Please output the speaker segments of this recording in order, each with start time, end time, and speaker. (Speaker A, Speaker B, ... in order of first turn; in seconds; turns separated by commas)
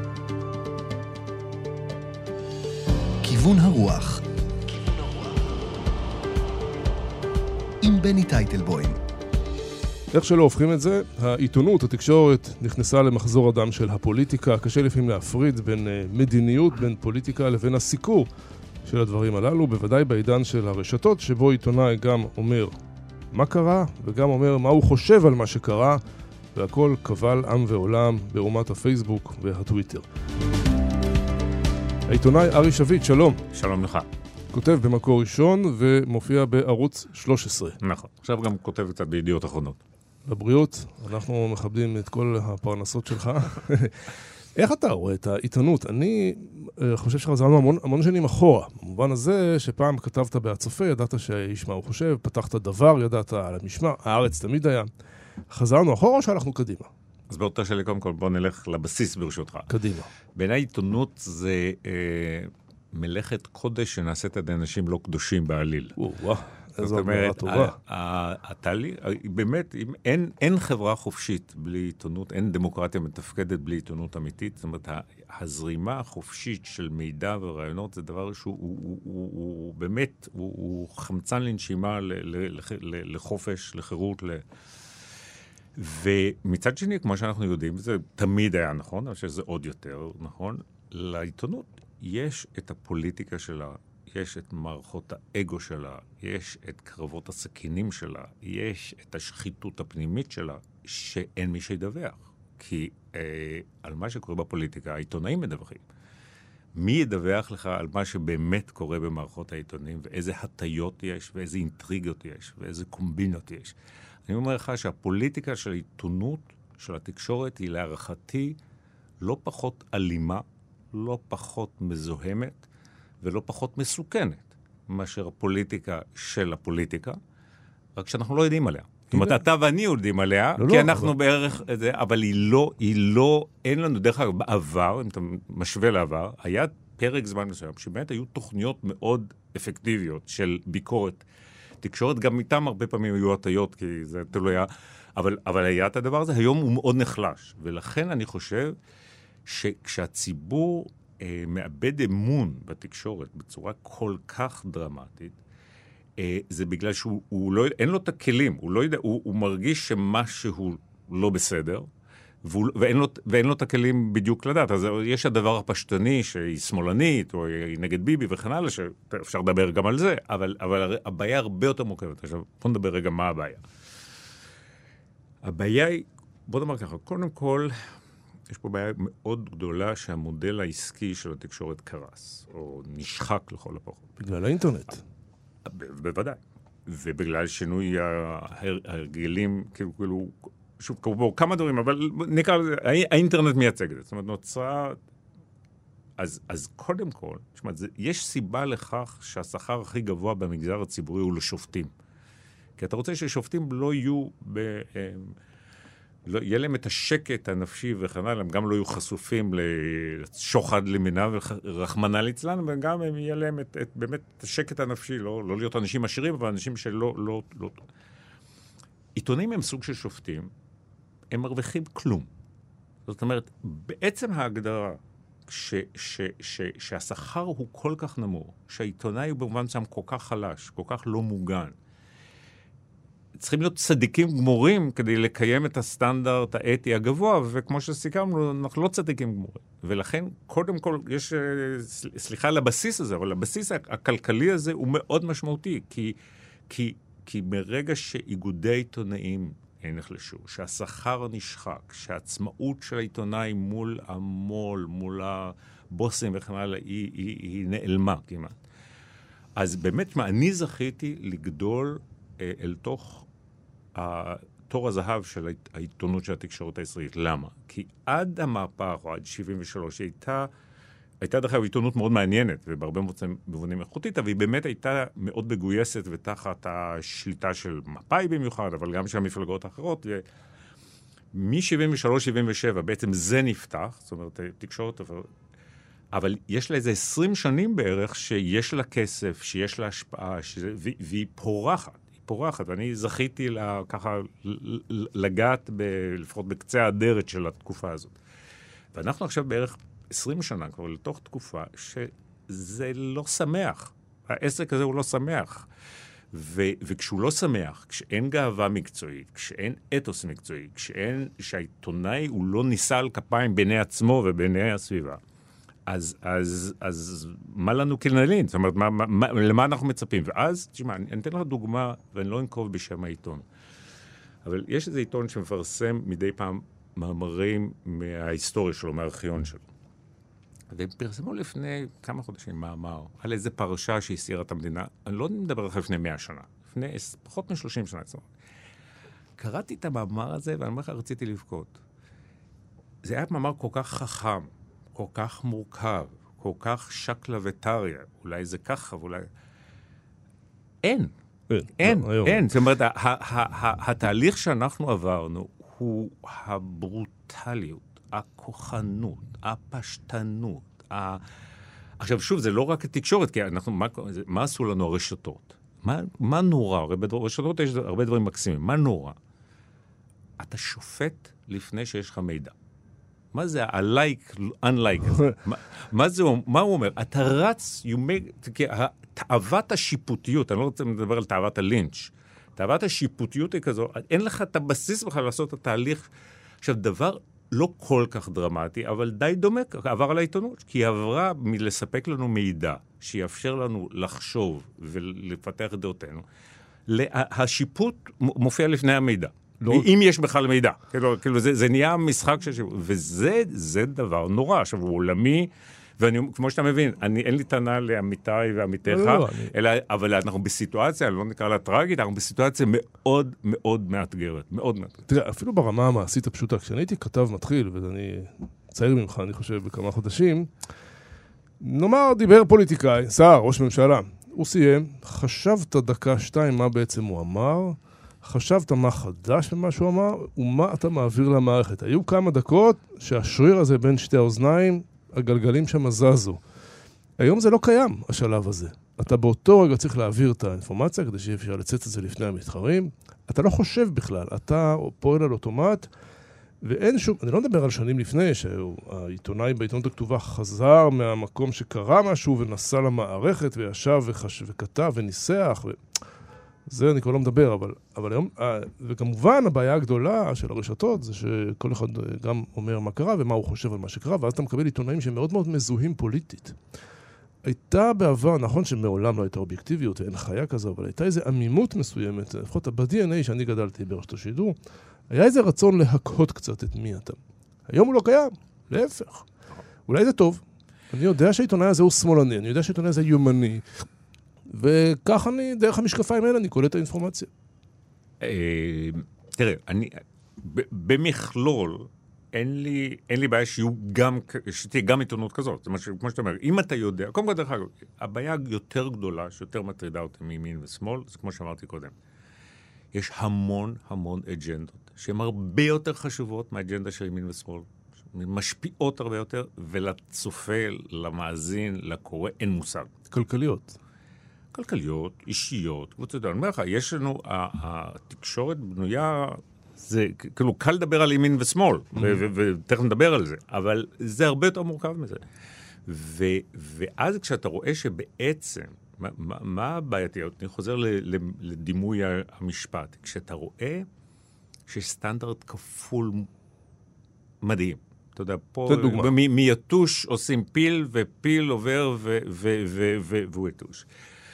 Speaker A: 3.2-4.2, Speaker A: 7.8-9.0, Speaker B: 10.1-18.3, Speaker B: 18.9-22.8, Speaker B: 23.3-26.0, Speaker B: 26.6-30.1, Speaker B: 32.1-33.4, Speaker C: 33.5-34.1, Speaker B: 34.5-37.8, Speaker C: 37.8-39.8, Speaker B: 40.3-54.9, Speaker B: 55.5-56.9, Speaker C: 57.3-59.7, Speaker B: 59.7-60.1, Speaker C: 60.4-66.0, Speaker B: 66.0-67.8, Speaker C: 66.8-84.4, Speaker C: 85.8-105.9, Speaker C: 106.7-118.6, Speaker C: 119.2-122.6, Speaker C: 123.2-127.2, Speaker C: 128.0-141.2, Speaker B: 129.1-129.4, Speaker B: 130.6-131.1, Speaker C: 141.8-148.8, Speaker C: 149.4-155.4, Speaker C: 156.2-161.9, Speaker C: 162.4-173.6, Speaker C: 175.4-177.9, Speaker C: 178.5-184.1, Speaker B: 184.2-185.0, Speaker C: 185.6-195.0, Speaker C: 196.2-201.9, Speaker C: 202.8-205.4, Speaker C: 206.3-217.8, Speaker C: 219.2-220.5, Speaker C: 221.3-222.3, Speaker C: 223.1-231.8, Speaker C: 233.4-246.2, Speaker C: 246.7-258.6, Speaker C: 259.6-263.3, Speaker C: 263.9-270.5, Speaker C: 271.2-280.2, Speaker C: 281.3-285.3, Speaker C: 286.1-298.2, Speaker C: 298.9-305.7, Speaker C: 306.3-315.2, Speaker C: 315.9-323.5, Speaker C: 324.4-329.6, Speaker C: 330.7-338.3, Speaker C: 339.4-341.8, Speaker C: 343.0-349.3, Speaker C: 350.8-351.1, Speaker B: 351.5-352.5, Speaker C: 351.8-361.2, Speaker C: 362.0-369.2, Speaker C: 370.4-372.5, Speaker C: 373.3-386.1, Speaker C: 386.6-396.2, Speaker C: 396.9-415.0, Speaker B: 399.6-399.9, Speaker B: 408.9-409.5, Speaker B: 415.1-420.5, Speaker B: 421.6-436.4, Speaker B: 437.2-445.9, Speaker B: 446.6-455.8, Speaker B: 456.7-466.6, Speaker B: 467.4-474.6, Speaker B: 475.1-479.3, Speaker B: 479.9-483.7, Speaker B: 484.5-487.3, Speaker C: 488.2-501.9, Speaker C: 502.9-512.9, Speaker B: 513.1-513.8, Speaker C: 514.5-525.2, Speaker C: 525.9-533.9, Speaker C: 534.7-536.3, Speaker C: 537.4-543.9, Speaker B: 538.7-539.1